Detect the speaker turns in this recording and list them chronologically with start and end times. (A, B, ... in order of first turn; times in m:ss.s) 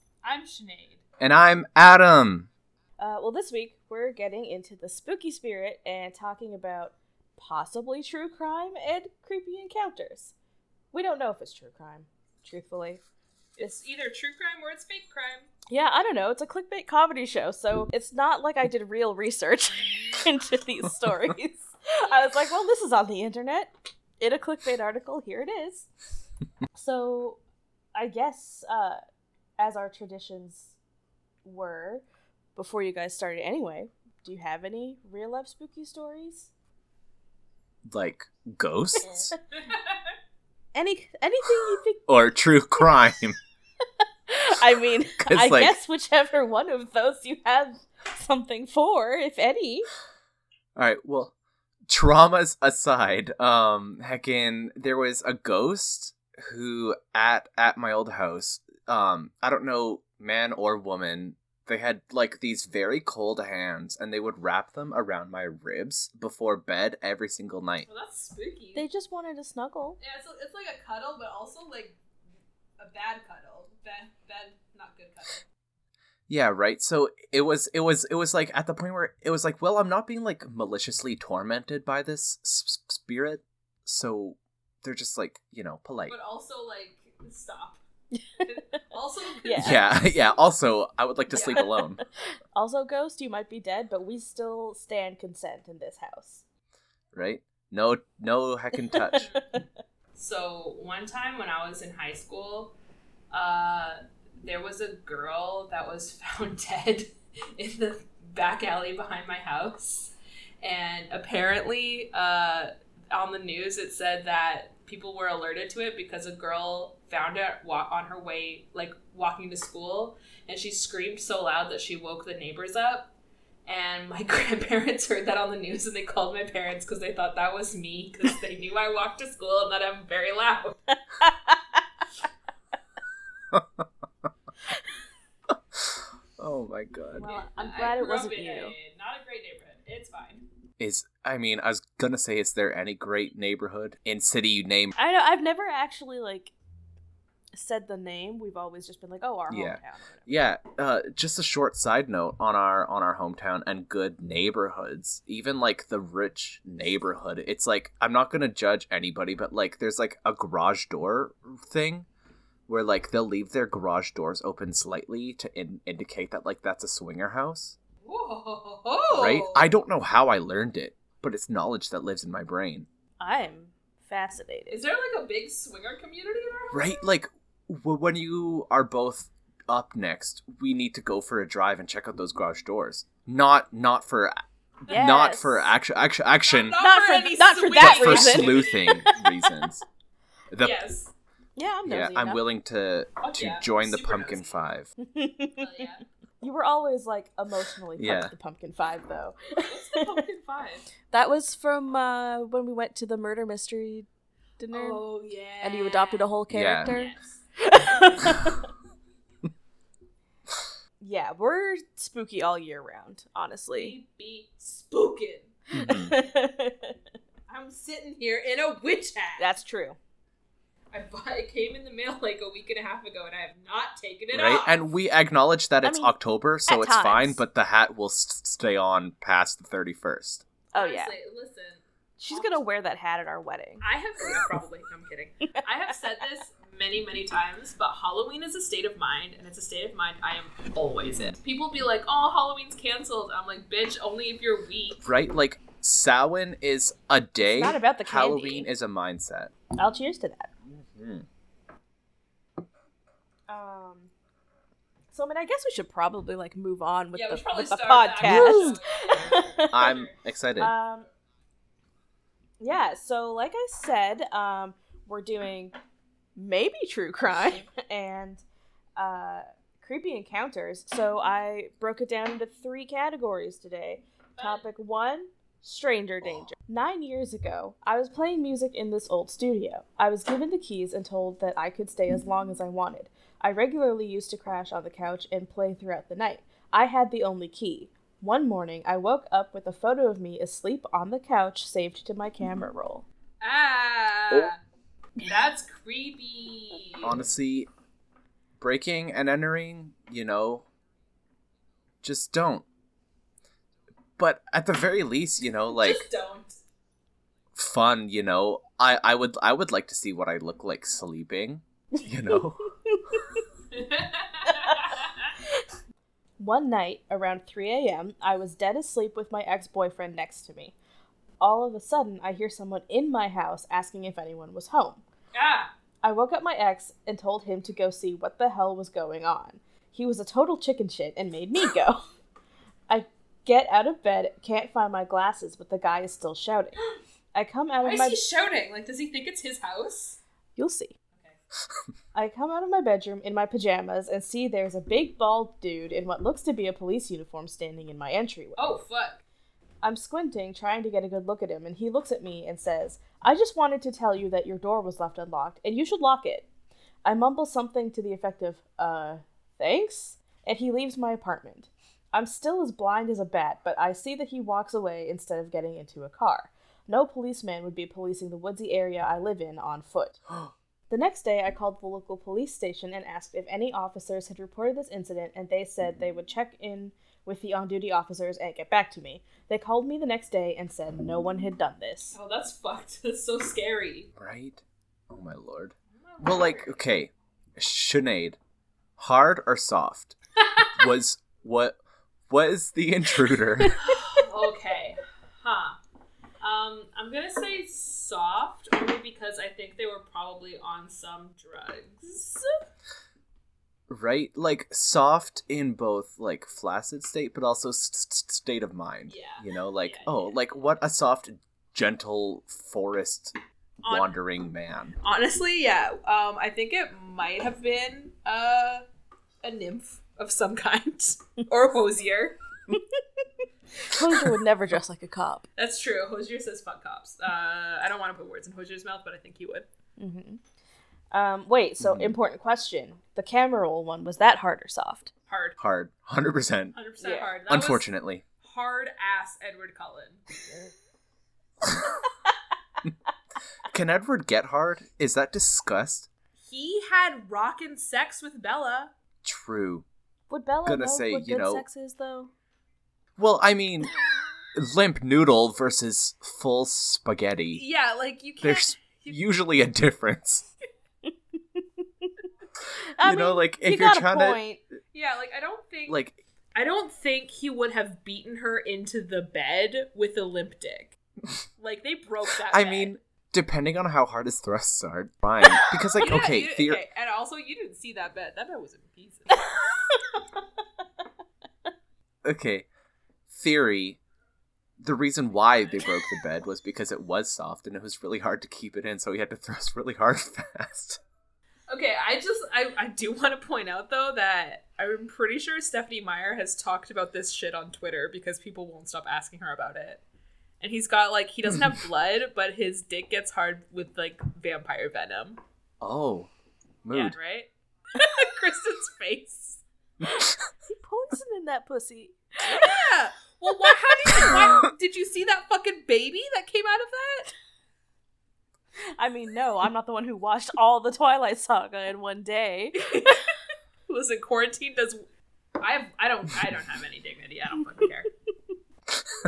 0:00.2-0:01.0 A
0:01.2-0:02.5 B
0:03.0-0:10.3 C
0:10.9-0:13.0 C
0:13.6-0:15.5 A
0:15.7-0:25.9 C
0:22.0-0:22.3 A
0:26.8-0:27.4 C
0:28.0-0:29.0 C
0:29.6-0:30.8 C
0:31.4-0:32.0 C
0:32.6-0:36.5 C
0:37.9-0:39.4 B
0:39.1-0:39.4 C
0:39.6-0:40.0 A
0:40.7-0:42.1 C
0:42.1-0:43.4 B
0:44.3-0:49.9 C
0:45.2-0:45.8 B
0:50.8-0:51.3 B
0:51.9-1:07.9 B
1:07.9-1:08.8 A
1:08.8-1:10.0 C
1:10.0-1:12.0 A
1:12.8-1:15.4 A
1:16.3-1:26.2 B
1:26.1-1:27.8 A
1:28.1-1:28.6 C
1:28.4-1:30.0 A
1:29.4-1:29.8 C
1:29.6-1:32.0 B
1:31.3-1:31.7 A
1:32.6-1:36.4 C
1:37.1-1:39.3 B
1:38.9-1:39.7 C
1:40.2-1:42.7 A
1:43.3-2:03.1 A
2:03.7-2:10.8 A
2:11.2-2:11.6 C
2:13.5-2:13.9 B
2:15.5-2:17.3 B
2:17.2-2:20.4 A
2:17.2-2:18.7 C
2:20.8-2:25.0 B
2:25.0-2:26.5 C
2:27.5-2:30.3 C
2:29.5-2:42.1 B
2:42.7-2:47.8 B
2:48.0-2:49.7 A
2:49.1-2:52.9 B
2:53.2-2:54.8 C
2:54.7-2:57.0 A
2:56.7-3:04.4 B
3:04.9-3:06.8 B
3:04.9-3:05.7 C
3:06.4-3:09.0 A
3:06.8-3:09.7 C
3:07.8-3:09.8 B
3:10.5-3:10.8 B
3:10.6-3:11.1 A
3:11.6-3:12.4 C
3:11.9-3:14.9 B
3:13.2-3:14.6 A
3:15.0-3:20.2 C
3:15.6-3:16.0 A
3:18.0-3:18.3 B
3:19.6-3:20.9 A
3:21.1-3:24.1 C
3:24.6-3:25.0 C
3:24.7-3:26.3 A
3:25.6-3:28.7 C
3:26.5-3:26.9 B
3:26.9-3:27.4 A
3:31.0-3:34.0 C
3:33.8-3:35.5 A
3:35.7-3:36.1 B
3:35.8-3:37.0 C
3:37.5-3:39.5 A
3:39.4-3:40.0 C
3:40.9-3:44.8 A
3:44.3-3:50.4 B
3:45.8-3:46.1 C
3:46.7-3:47.4 C
3:50.7-3:51.2 C
3:50.8-3:52.6 A
3:52.2-3:53.8 C
3:53.8-4:05.0 A
4:05.0-4:09.5 B
4:07.4-4:08.7 C
4:09.8-4:10.5 C
4:10.7-4:11.3 B
4:13.5-4:14.1 C
4:15.1-4:19.8 C
4:17.1-4:20.1 A
4:18.2-4:18.8 B
4:19.7-4:20.7 B
4:20.6-4:21.1 C
4:22.6-4:25.8 C
4:26.4-4:28.4 C
4:29.0-4:53.0 C
4:34.4-4:34.7 A
4:53.4-4:54.6 A
4:55.2-4:57.2 A
4:57.0-4:57.7 B
4:58.6-5:00.6 B
5:02.0-5:02.7 B
5:04.2-5:06.1 B
5:05.7-5:06.6 A
5:07.6-5:12.7 B
5:12.9-5:13.4 C
5:13.7-5:15.3 A
5:14.5-5:14.8 C
5:16.4-5:20.8 C
5:21.4-5:25.0 C
5:25.3-5:25.7 A
5:26.0-5:32.1 C
5:32.9-5:36.8 C
5:37.3-5:38.2 C
5:37.8-5:40.2 A
5:40.6-5:41.0 C
5:41.1-5:41.4 A
5:42.1-5:48.7 C
5:48.6-5:49.2 A
5:49.8-5:56.5 C
5:57.0-6:10.2 C
6:10.9-6:22.2 C
6:22.2-6:24.1 A
6:24.2-6:28.4 B
6:26.1-6:26.8 A
6:29.0-6:30.2 B
6:30.4-6:30.7 A
6:30.8-6:31.8 B
6:32.3-6:33.8 B
6:33.8-6:35.8 A
6:36.4-6:42.5 A
6:43.9-6:55.0 B
6:49.1-6:50.3 A
6:53.9-6:54.2 A
6:55.0-6:58.8 A
6:59.4-7:02.4 A
7:02.7-7:05.5 C
7:05.6-7:09.7 A
7:10.0-7:10.4 C
7:11.1-7:15.1 C
7:11.8-7:12.2 B
7:15.3-7:15.6 A
7:15.6-7:16.8 B
7:16.7-7:17.9 A
7:17.0-7:17.3 C
7:17.5-7:18.2 B
7:18.4-7:20.2 A
7:23.7-7:26.1 B
7:26.4-7:28.9 A
7:29.2-7:29.9 B
7:30.3-7:32.3 C
7:30.6-7:31.6 B
7:33.2-7:33.9 B
7:34.5-7:37.6 B
7:37.5-7:39.2 A
7:38.4-7:40.5 B
7:41.1-7:42.1 C
7:43.0-7:44.6 C
7:43.0-7:44.4 B
7:44.9-7:46.0 A
7:45.9-7:46.2 B
7:46.6-7:50.9 A
7:51.6-7:52.9 A
7:52.5-7:56.8 B
7:56.0-7:59.5 A
8:02.2-8:02.7 B
8:03.3-8:04.0 B
8:04.8-8:11.0 B
8:11.7-8:20.0 A
8:20.6-8:25.4 A
8:25.8-8:26.3 B
8:26.8-8:27.2 B
8:26.9-8:29.6 A
8:30.2-8:32.9 C
8:32.4-8:37.3 A
8:34.1-8:34.4 C
8:39.0-8:43.2 C
8:42.8-8:43.2 A
8:43.9-8:45.0 A
8:45.6-8:48.1 A